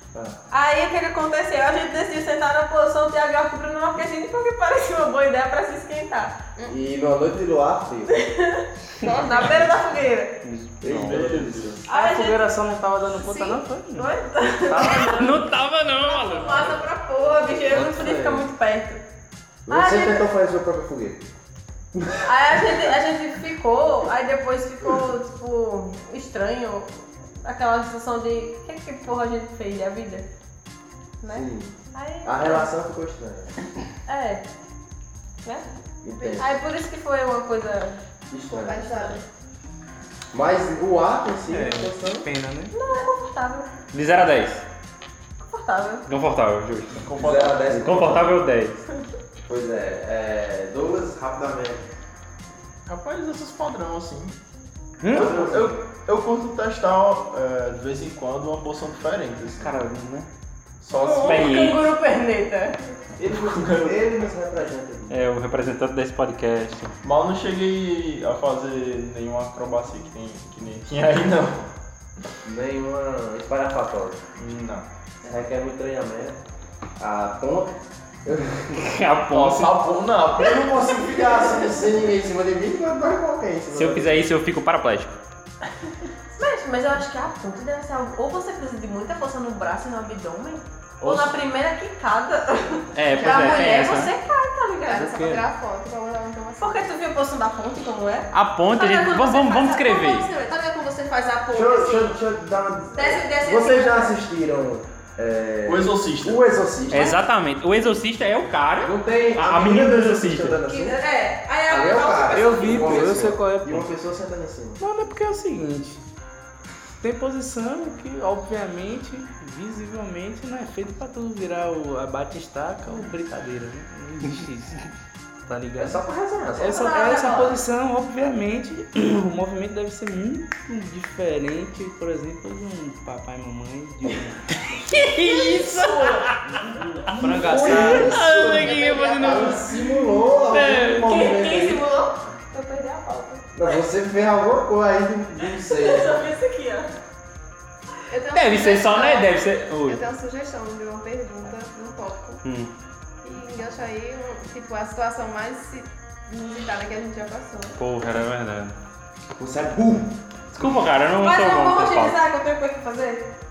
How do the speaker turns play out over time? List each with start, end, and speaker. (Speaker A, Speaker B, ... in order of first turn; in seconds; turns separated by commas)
Speaker A: 0.1-0.4, Speaker B: 0.5-6.4, Speaker A: 6.7-8.1, Speaker B: 8.1-10.4, Speaker C: 9.0-9.6, Speaker D: 10.4-11.3, Speaker A: 10.8-11.8, Speaker E: 10.9-11.8, Speaker B: 11.9-12.5, Speaker F: 11.9-14.1, Speaker B: 13.1-15.4, Speaker A: 14.7-15.1, Speaker D: 14.7-16.8, Speaker B: 16.1-19.0, Speaker A: 17.7-18.4, Speaker A: 19.7-21.2, Speaker B: 19.7-20.2, Speaker A: 21.9-22.9, Speaker B: 22.2-30.3, Speaker B: 31.2-32.7, Speaker A: 31.3-33.5, Speaker B: 34.1-34.4, Speaker A: 36.0-36.6, Speaker B: 36.4-38.0, Speaker A: 38.3-39.1, Speaker C: 38.5-39.3, Speaker A: 40.3-42.3, Speaker F: 41.5-42.7, Speaker B: 42.7-43.7, Speaker D: 43.9-44.7, Speaker B: 45.4-46.1, Speaker D: 46.1-47.1, Speaker E: 46.9-47.9, Speaker A: 47.2-48.4, Speaker D: 47.7-48.8, Speaker A: 49.5-51.9, Speaker E: 52.9-54.4, Speaker F: 55.0-55.3, Speaker A: 55.1-55.8, Speaker E: 55.1-59.8, Speaker D: 59.6-60.3, Speaker E: 60.8-61.4, Speaker B: 60.9-62.9, Speaker D: 61.1-61.9, Speaker A: 63.2-65.2, Speaker E: 63.4-64.1, Speaker D: 65.1-66.9, Speaker E: 67.0-71.7, Speaker A: 72.4-74.2, Speaker E: 74.4-74.9, Speaker A: 75.2-76.4, Speaker A: 77.0-78.9, Speaker D: 78.7-79.8, Speaker E: 79.3-81.0, Speaker A: 80.4-84.3, Speaker D: 83.7-85.2, Speaker B: 86.3-95.2, Speaker D: 93.0-94.1, Speaker C: 93.2-93.8, Speaker C: 94.8-96.9, Speaker F: 95.0-95.4, Speaker B: 96.6-102.2, Speaker D: 98.3-100.3, Speaker A: 101.5-107.2, Speaker B: 102.9-104.2, Speaker E: 105.7-106.4, Speaker D: 106.9-110.6, Speaker A: 108.8-111.0, Speaker B: 110.7-113.2, Speaker A: 111.7-114.8, Speaker F: 112.3-113.9, Speaker F: 114.8-116.0, Speaker F: 117.0-124.8, Speaker F: 125.5-126.0, Speaker A: 125.8-126.9, Speaker F: 126.6-135.1, Speaker B: 126.6-127.6, Speaker D: 134.9-136.5, Speaker B: 135.1-136.3, Speaker F: 137.1-138.2, Speaker A: 137.2-141.9, Speaker D: 137.5-139.9, Speaker C: 138.2-139.6, Speaker B: 138.9-139.3, Speaker D: 140.4-141.1, Speaker B: 141.0-142.2, Speaker C: 142.5-143.4, Speaker A: 143.5-146.2, Speaker B: 145.5-146.9, Speaker C: 148.1-152.4, Speaker D: 148.3-150.0, Speaker D: 152.4-152.7, Speaker C: 153.2-157.8, Speaker D: 157.8-158.8, Speaker A: 159.4-160.2, Speaker D: 160.5-162.2, Speaker B: 161.2-163.3